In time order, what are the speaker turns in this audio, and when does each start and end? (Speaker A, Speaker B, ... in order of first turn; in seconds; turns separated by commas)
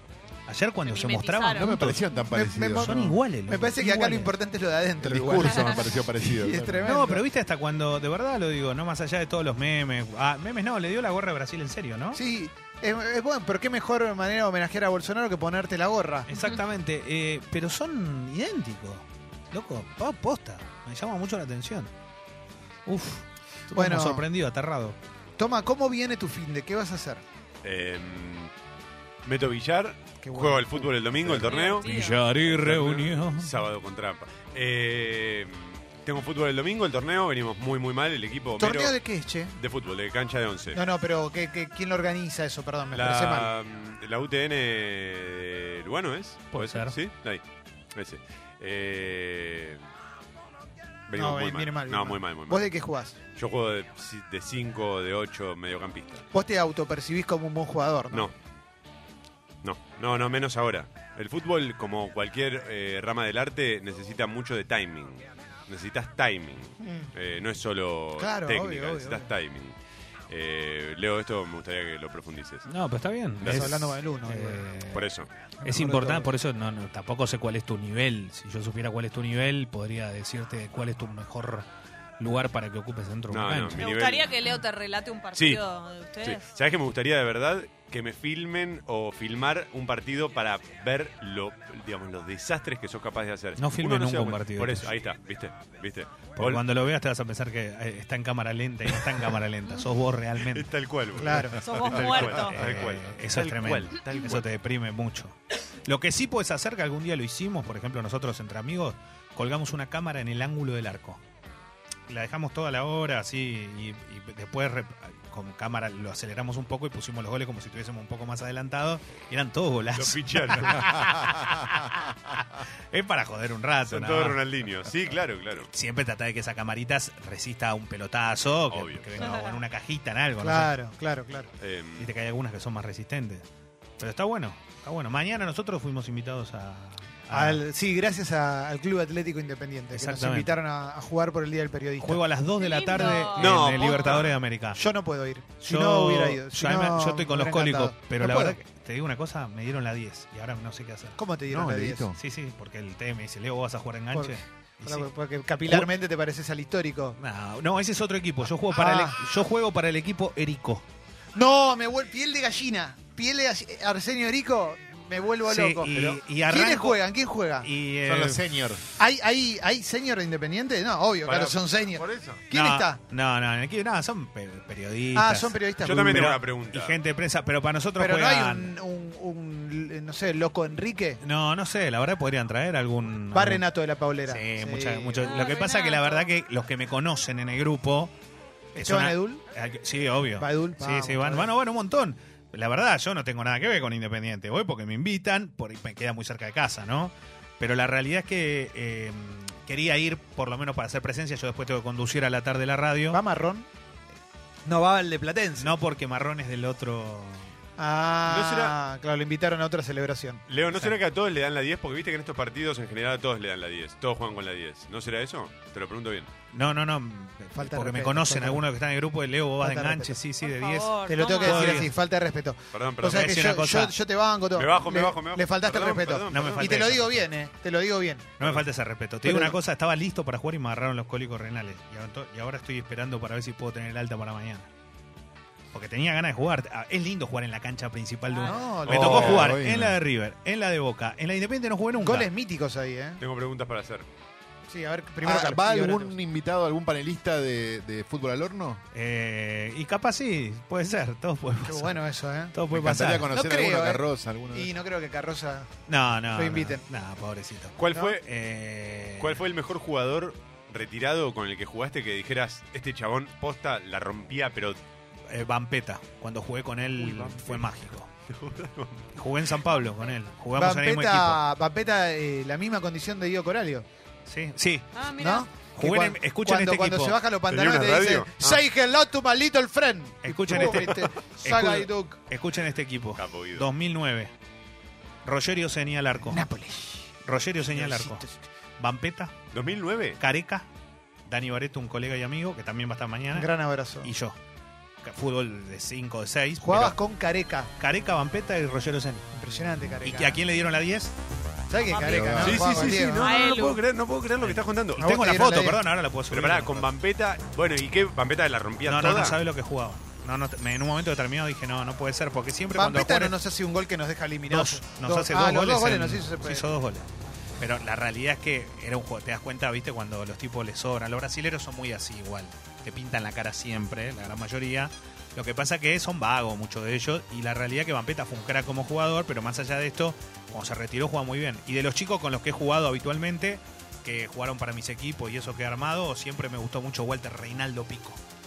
Speaker A: 0.5-2.0, Speaker B: 0.8-1.8, Speaker C: 1.5-3.2, Speaker D: 2.3-7.2, Speaker A: 2.7-4.3, Speaker C: 5.0-6.9, Speaker A: 6.8-12.2, Speaker D: 12.1-16.3, Speaker A: 16.3-21.9, Speaker B: 16.3-16.6, Speaker A: 22.9-24.9, Speaker D: 23.7-24.2, Speaker D: 25.4-27.2, Speaker E: 27.6-28.5, Speaker E: 29.2-39.0, Speaker D: 30.2-31.0, Speaker B: 31.5-32.2, Speaker A: 31.8-33.5, Speaker D: 38.6-39.5, Speaker E: 39.5-40.8, Speaker D: 40.7-43.5, Speaker E: 42.9-47.4, Speaker A: 46.5-47.0, Speaker E: 47.9-49.8, Speaker E: 51.1-52.7, Speaker D: 51.1-53.1, Speaker E: 53.3-56.2, Speaker D: 56.3-58.3, Speaker E: 59.6-69.7, Speaker D: 66.8-67.1, Speaker D: 68.2-69.3, Speaker E: 70.3-72.7, Speaker A: 72.7-75.0, Speaker E: 73.4-73.7, Speaker D: 73.4-74.6, Speaker E: 74.9-75.3, Speaker D: 75.6-76.3, Speaker A: 75.6-81.7, Speaker A: 82.2-83.9, Speaker E: 83.3-84.3, Speaker B: 83.8-86.5, Speaker E: 85.3-85.6, Speaker E: 86.2-96.6, Speaker A: 93.6-94.9, Speaker A: 96.4-100.7, Speaker E: 100.4-104.4, Speaker D: 101.2-101.6, Speaker B: 101.6-102.6, Speaker A: 102.0-111.2, Speaker A: 112.1-121.9, Speaker E: 119.9-121.1, Speaker A: 122.9-124.4, Speaker E: 123.9-125.7, Speaker A: 125.6-130.7, Speaker E: 128.7-129.3, Speaker B: 129.2-129.6, Speaker D: 130.4-131.5, Speaker E: 131.6-132.1, Speaker A: 132.0-133.4, Speaker A: 134.0-137.6, Speaker D: 137.3-142.2, Speaker A: 139.9-140.5, Speaker A: 142.0-144.8, Speaker B: 142.6-144.3, Speaker E: 143.3-144.4, Speaker D: 144.7-148.6, Speaker A: 145.6-151.2, Speaker D: 151.2-152.1, Speaker C: 151.5-152.2, Speaker A: 152.2-155.1, Speaker D: 154.1-157.2, Speaker A: 157.2-160.8, Speaker D: 158.7-159.2, Speaker D: 161.3-167.7, Speaker A: 165.4-167.0, Speaker A: 167.6-168.4, Speaker C: 168.0-168.8, Speaker D: 169.0-173.0, Speaker C: 171.2-172.4, Speaker A: 172.5-178.7, Speaker D: 175.1-176.3, Speaker E: 175.8-177.0, Speaker D: 178.0-181.2, Speaker A: 181.2-183.6, Speaker D: 183.3-185.3, Speaker A: 184.3-188.1, Speaker B: 185.2-186.3, Speaker D: 188.7-189.4, Speaker A: 188.8-203.2, Speaker D: 190.4-191.5, Speaker D: 203.1-203.7, Speaker D: 204.7-205.7, Speaker A: 205.6-207.5, Speaker D: 207.8-210.4, Speaker E: 208.3-208.7, Speaker E: 210.5-216.3, Speaker A: 210.7-210.9, Speaker A: 216.5-221.9, Speaker D: 217.5-218.6, Speaker D: 219.6-220.2, Speaker B: 220.4-221.9, Speaker D: 221.1-228.4, Speaker E: 222.7-223.3, Speaker A: 223.0-223.9, Speaker E: 224.5-226.9, Speaker A: 226.3-227.2, Speaker A: 228.4-234.7, Speaker D: 229.2-229.6, Speaker A: 235.7-242.3, Speaker B: 238.3-238.8, Speaker D: 238.4-239.4, Speaker C: 238.9-240.0, Speaker E: 238.9-239.5, Speaker D: 242.0-243.2, Speaker E: 243.2-244.1, Speaker D: 244.7-246.1, Speaker C: 245.2-248.8, Speaker A: 248.9-252.0, Speaker D: 251.6-252.5, Speaker A: 252.5-253.3, Speaker C: 252.7-254.7, Speaker D: 253.3-255.7, Speaker A: 255.9-259.4, Speaker D: 256.3-256.8, Speaker E: 257.8-258.2, Speaker E: 259.2-264.8, Speaker A: 265.3-268.1, Speaker C: 267.1-267.4, Speaker E: 268.3-269.1, Speaker A: 269.1-271.4, Speaker B: 269.7-270.1, Speaker D: 270.6-273.8, Speaker A: 274.2-274.9, Speaker B: 274.9-275.6, Speaker D: 275.2-282.2, Speaker A: 275.7-277.2, Speaker E: 277.5-278.6, Speaker A: 280.2-284.3, Speaker E: 283.2-283.7, Speaker A: 285.2-286.4, Speaker D: 286.2-287.1, Speaker A: 287.2-288.2, Speaker D: 287.7-288.4, Speaker A: 288.8-289.3, Speaker E: 289.5-290.2, Speaker A: 290.2-290.6, Speaker A: 291.3-293.5, Speaker D: 293.3-294.1, Speaker A: 294.0-294.4, Speaker A: 295.0-297.0, Speaker D: 296.6-297.7, Speaker A: 297.8-299.2, Speaker D: 299.3-300.4, Speaker A: 300.0-301.1, Speaker D: 301.7-303.3, Speaker B: 301.9-303.8, Speaker C: 301.9-302.9, Speaker E: 302.4-305.0, Speaker A: 304.4-306.9, Speaker D: 305.0-305.8, Speaker E: 306.3-309.4, Speaker A: 308.8-313.4, Speaker D: 312.7-316.7, Speaker A: 314.5-317.0, Speaker A: 317.6-338.2